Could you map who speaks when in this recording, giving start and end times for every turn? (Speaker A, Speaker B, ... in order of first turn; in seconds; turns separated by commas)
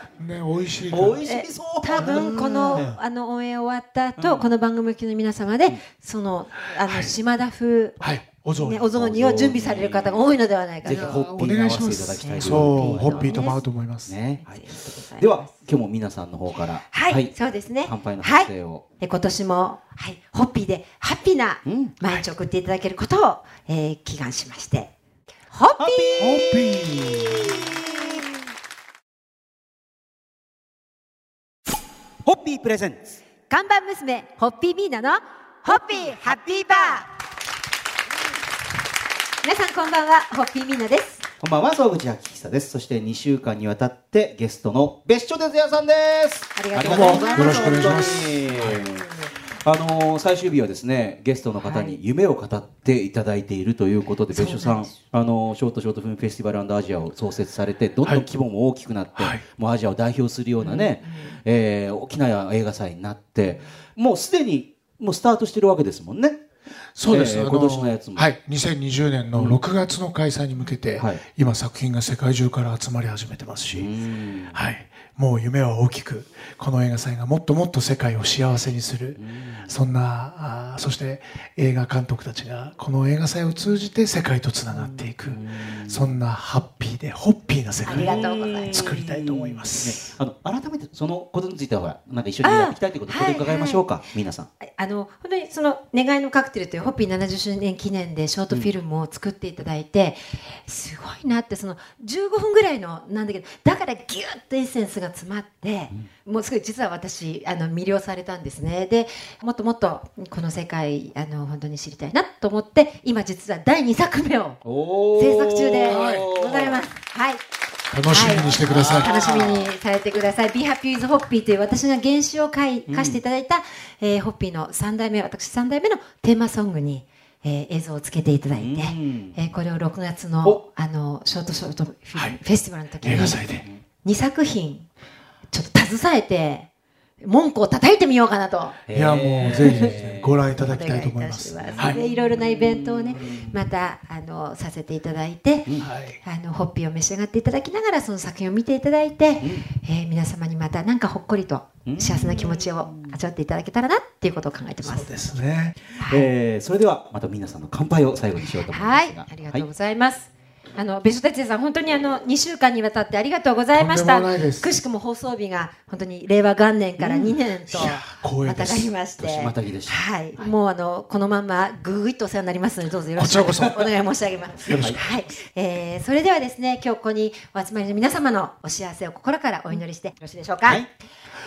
Speaker A: 0.2-1.2, Speaker B: 0.9-2.9, Speaker C: 1.3-8.0, Speaker A: 2.0-3.0, Speaker B: 4.2-4.5, Speaker A: 6.9-7.1, Speaker A: 8.0-8.9, Speaker C: 8.6-11.3, Speaker B: 8.9-10.3, Speaker B: 10.8-14.7, Speaker A: 10.9-14.1, Speaker C: 12.2-13.6, Speaker C: 14.4-15.5, Speaker B: 15.2-18.9, Speaker C: 16.9-24.9, Speaker B: 21.6-21.9, Speaker C: 25.5-26.3, Speaker B: 25.8-28.1, Speaker A: 26.2-27.7, Speaker B: 32.3-33.0, Speaker C: 33.5-37.1, Speaker C: 39.4-41.2, Speaker B: 41.4-66.4, Speaker C: 46.6-48.1, Speaker A: 46.8-48.8, Speaker C: 51.6-52.0, Speaker C: 54.3-55.0, Speaker A: 59.2-59.4, Speaker C: 60.6-61.4, Speaker A: 67.0-73.9, Speaker B: 67.1-68.3, Speaker B: 69.3-69.6, Speaker B: 71.0-71.2, Speaker B: 73.7-74.7, Speaker A: 74.5-90.2, Speaker B: 79.2-79.8, Speaker B: 84.7-86.2, Speaker C: 87.8-88.9, Speaker B: 87.9-94.5, Speaker C: 92.4-94.0, Speaker C: 94.6-114.6, Speaker B: 114.6-116.8, Speaker C: 115.1-117.4, Speaker A: 115.9-116.3, Speaker A: 117.9-119.1, Speaker C: 118.1-133.4, Speaker B: 118.2-119.7, Speaker B: 122.9-123.2, Speaker B: 128.5-129.4, Speaker A: 133.0-133.7, Speaker B: 133.0-133.8, Speaker C: 134.0-134.9, Speaker C: 135.5-136.7, Speaker C: 137.2-138.8, Speaker B: 138.9-140.5, Speaker A: 138.9-142.0, Speaker C: 139.4-140.0, Speaker C: 140.6-155.4, Speaker B: 141.6-143.6, Speaker A: 145.8-146.2, Speaker B: 151.9-153.2, Speaker A: 154.8-155.8, Speaker C: 156.0-156.3, Speaker B: 156.0-159.7, Speaker C: 158.6-180.8, Speaker A: 163.7-164.8, Speaker A: 167.0-168.9, Speaker B: 169.2-170.0, Speaker A: 173.2-173.9, Speaker A: 174.7-175.1, Speaker B: 174.7-175.0